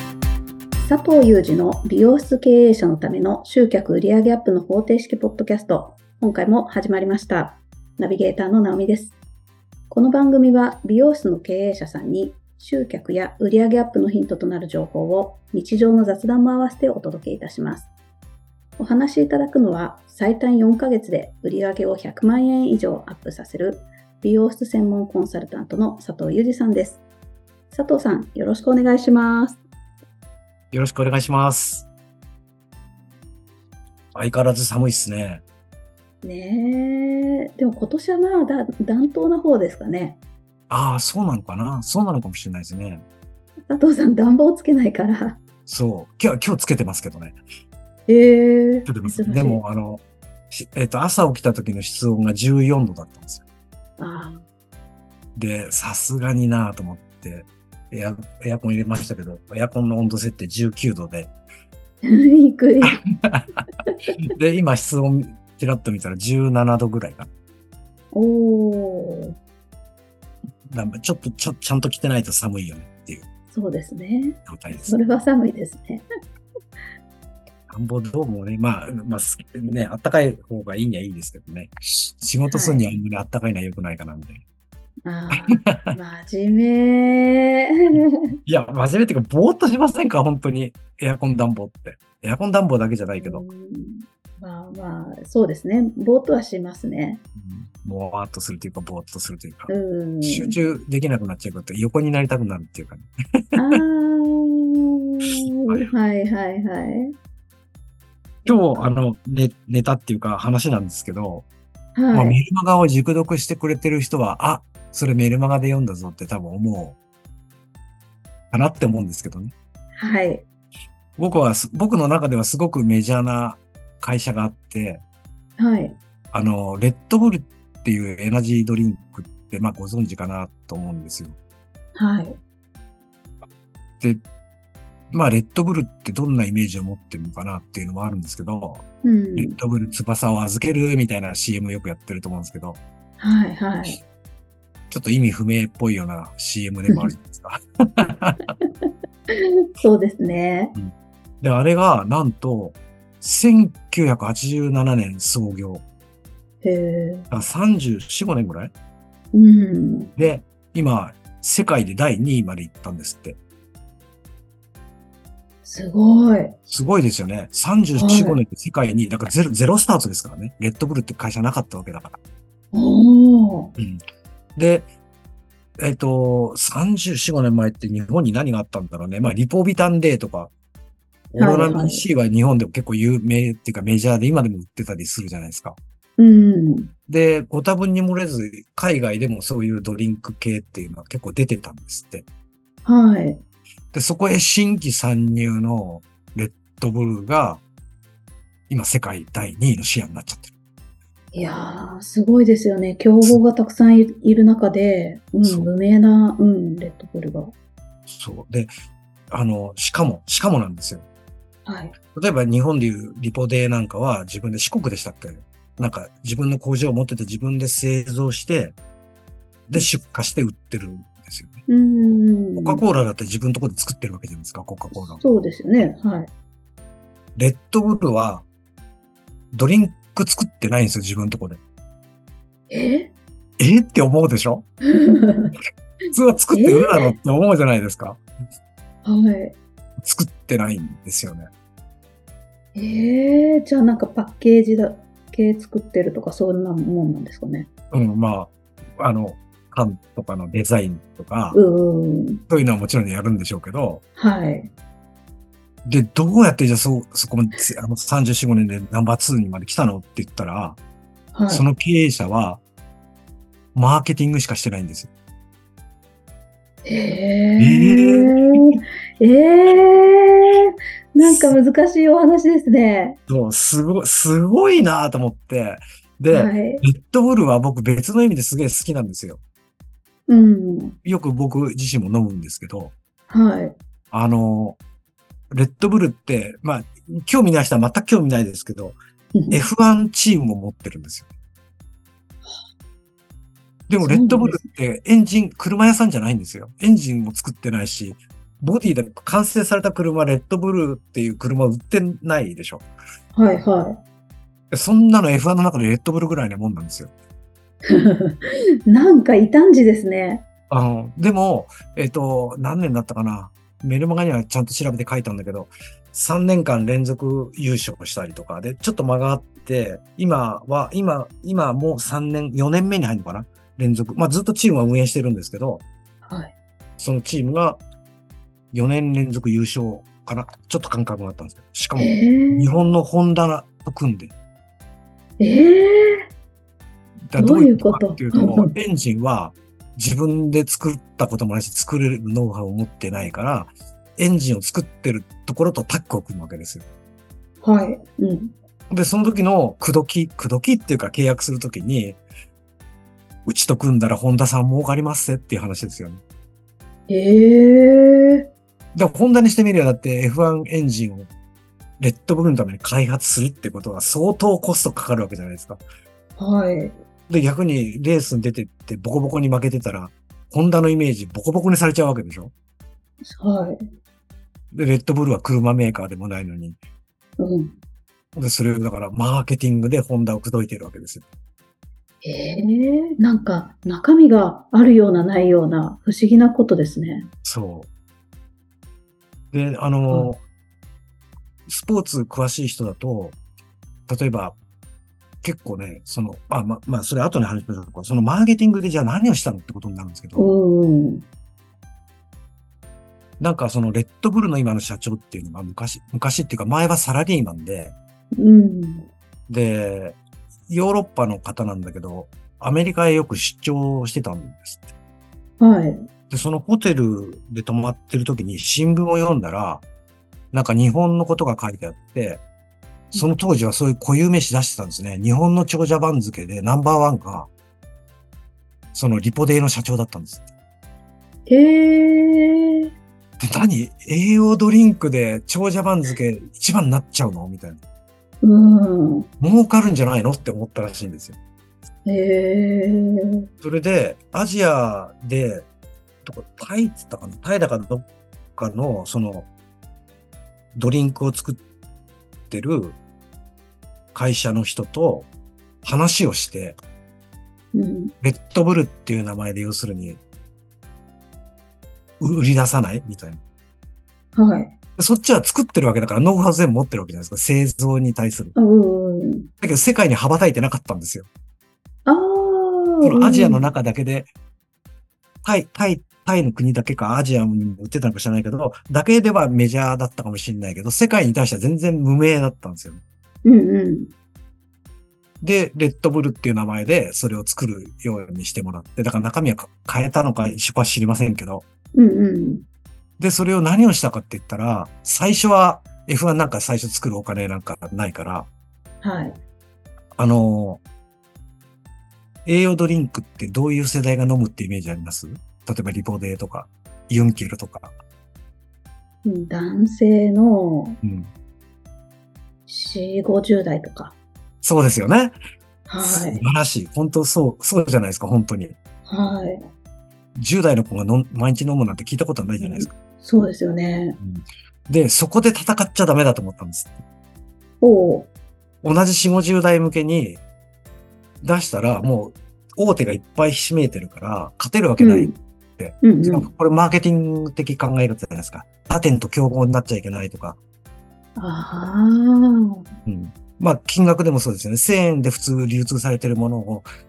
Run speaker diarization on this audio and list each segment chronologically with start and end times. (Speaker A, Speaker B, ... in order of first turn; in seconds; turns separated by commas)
Speaker A: 0.8-9.2, Speaker A: 9.9-17.9, Speaker A: 18.8-27.0, Speaker A: 27.7-29.6, Speaker B: 30.7-31.9, Speaker B: 34.1-35.4, Speaker A: 36.2-40.2, Speaker B: 40.7-43.0, Speaker A: 43.7-45.4, Speaker B: 45.7-47.4, Speaker A: 48.1-49.6, Speaker B: 48.9-53.4, Speaker A: 54.0-54.4, Speaker B: 55.4-61.3, Speaker A: 62.0-63.0, Speaker B: 62.8-63.7, Speaker B: 64.2-67.3, Speaker A: 68.1-69.3, Speaker B: 70.7-73.3, Speaker A: 73.5-76.0, Speaker B: 74.5-75.0, Speaker B: 77.7-84.4, Speaker A: 82.5-82.8, Speaker A: 85.0-88.2, Speaker B: 85.3-86.0, Speaker B: 87.9-93.5, Speaker A: 93.2-97.2, Speaker B: 97.4-99.7, Speaker A: 99.7-100.5, Speaker B: 100.2-103.8, Speaker A: 103.6-107.1, Speaker B: 105.2-105.9, Speaker B: 108.5-111.5, Speaker A: 108.5-108.8, Speaker A: 112.0-112.4, Speaker B: 112.1-117.0, Speaker B: 118.5-119.5, Speaker A: 120.0-120.5, Speaker B: 121.2-125.0, Speaker A: 125.6-126.0, Speaker B: 126.3-131.4, Speaker A: 131.9-132.4, Speaker B: 135.1-138.8, Speaker A: 139.0-139.6, Speaker B: 139.4-142.8, Speaker A: 143.2-144.0, Speaker B: 144.9-148.4, Speaker A: 148.6-150.7, Speaker B: 150.7-155.8, Speaker A: 156.6-157.3, Speaker B: 157.3-158.7, Speaker A: 159.3-160.1, Speaker B: 160.2-163.4, Speaker A: 165.6-166.6, Speaker B: 166.7-172.2, Speaker A: 168.0-168.4, Speaker A: 172.7-173.7, Speaker B: 173.8-174.0, Speaker B: 174.6-174.9, Speaker B: 175.8-180.5, Speaker B: 181.3-185.8, Speaker A: 181.4-182.0, Speaker A: 186.2-186.9, Speaker B: 187.1-192.3, Speaker A: 192.8-193.4, Speaker B: 193.9-197.6, Speaker B: 198.7-200.5, Speaker A: 201.3-207.5, Speaker B: 205.4-205.7, Speaker B: 208.1-208.7, Speaker B: 209.3-211.1, Speaker A: 211.7-211.9, Speaker B: 212.1-218.8, Speaker B: 219.7-221.6, Speaker A: 221.7-222.8, Speaker B: 222.6-225.2, Speaker A: 225.0-226.3, Speaker B: 227.4-228.4, Speaker B: 229.5-231.6, Speaker A: 232.7-233.1, Speaker B: 233.6-234.7, Speaker A: 234.8-235.5, Speaker B: 236.1-238.2, Speaker A: 236.5-237.1, Speaker A: 239.1-239.6, Speaker B: 240.0-241.5, Speaker A: 242.8-247.7, Speaker B: 247.9-251.6, Speaker A: 251.5-252.4, Speaker B: 252.5-254.0, Speaker A: 254.2-254.7, Speaker B: 255.8-260.8, Speaker A: 261.4-261.7, Speaker B: 261.5-262.6, Speaker B: 263.8-265.1, Speaker A: 266.9-273.2, Speaker B: 267.6-268.7, Speaker B: 271.2-271.6, Speaker B: 273.3-279.4, Speaker A: 276.3-276.9, Speaker A: 280.3-281.0, Speaker B: 281.0-282.9, Speaker A: 283.3-283.8, Speaker B: 284.1-284.8, Speaker B: 285.5-289.0, Speaker A: 289.4-289.6, Speaker B: 289.5-291.3, Speaker B: 293.9-302.9, Speaker A: 294.0-294.7, Speaker A: 303.4-304.0, Speaker B: 304.7-307.1, Speaker A: 307.9-310.4, Speaker B: 310.7-325.8, Speaker A: 326.3-326.5, Speaker B: 327.0-327.8, Speaker B: 328.7-334.3, Speaker A: 332.0-332.7, Speaker A: 335.4-336.2, Speaker B: 337.3-346.9, Speaker A: 337.4-338.7, Speaker A: 347.6-348.5, Speaker B: 348.9-352.2, Speaker B: 353.5-356.2, Speaker A: 357.1-358.5, Speaker B: 358.9-361.3, Speaker B: 362.0-365.8, Speaker A: 366.4-367.0, Speaker B: 367.3-372.5, Speaker A: 373.2-373.8, Speaker B: 374.7-376.8, Speaker A: 377.4-377.8, Speaker B: 378.4-381.2, Speaker A: 382.2-387.3, Speaker B: 387.4-387.9, Speaker B: 389.5-390.4, Speaker B: 391.7-393.4, Speaker B: 394.1-394.6, Speaker B: 395.4-400.5, Speaker A: 400.4-401.2, Speaker B: 403.4-407.9, Speaker A: 408.4-409.1, Speaker B: 409.5-410.2, Speaker B: 410.7-414.9, Speaker A: 415.6-416.1, Speaker B: 416.3-419.8, Speaker B: 420.5-422.4, Speaker B: 423.1-427.5, Speaker B: 428.9-430.5, Speaker A: 431.5-432.9, Speaker B: 433.4-437.8, Speaker A: 438.4-439.3, Speaker B: 439.4-441.4, Speaker A: 442.1-443.5, Speaker B: 443.6-445.7, Speaker B: 446.2-449.5, Speaker B: 450.8-451.6, Speaker B: 452.5-453.0, Speaker B: 454.1-455.3, Speaker B: 455.8-456.8, Speaker A: 457.7-458.1, Speaker B: 458.2-460.2, Speaker B: 462.2-463.4, Speaker A: 464.4-464.7, Speaker B: 465.0-468.6, Speaker A: 468.6-469.5, Speaker B: 469.6-471.3, Speaker A: 472.1-473.7, Speaker B: 473.0-474.3, Speaker B: 475.4-483.0, Speaker A: 483.4-484.1, Speaker B: 485.4-491.6, Speaker A: 491.9-492.7, Speaker B: 493.2-498.5, Speaker A: 499.0-499.4, Speaker B: 500.2-500.8, Speaker B: 502.4-507.9, Speaker A: 509.2-511.0, Speaker B: 511.0-511.3, Speaker A: 512.7-514.2, Speaker B: 514.6-515.4, Speaker A: 515.9-516.4, Speaker B: 516.0-518.8, Speaker A: 519.1-519.6, Speaker B: 520.4-522.9, Speaker A: 522.6-524.2, Speaker B: 524.2-527.0, Speaker A: 527.8-528.3, Speaker B: 528.8-530.4, Speaker B: 531.4-540.6, Speaker A: 535.0-535.4, Speaker A: 536.0-536.5, Speaker A: 541.4-542.8, Speaker B: 543.1-546.9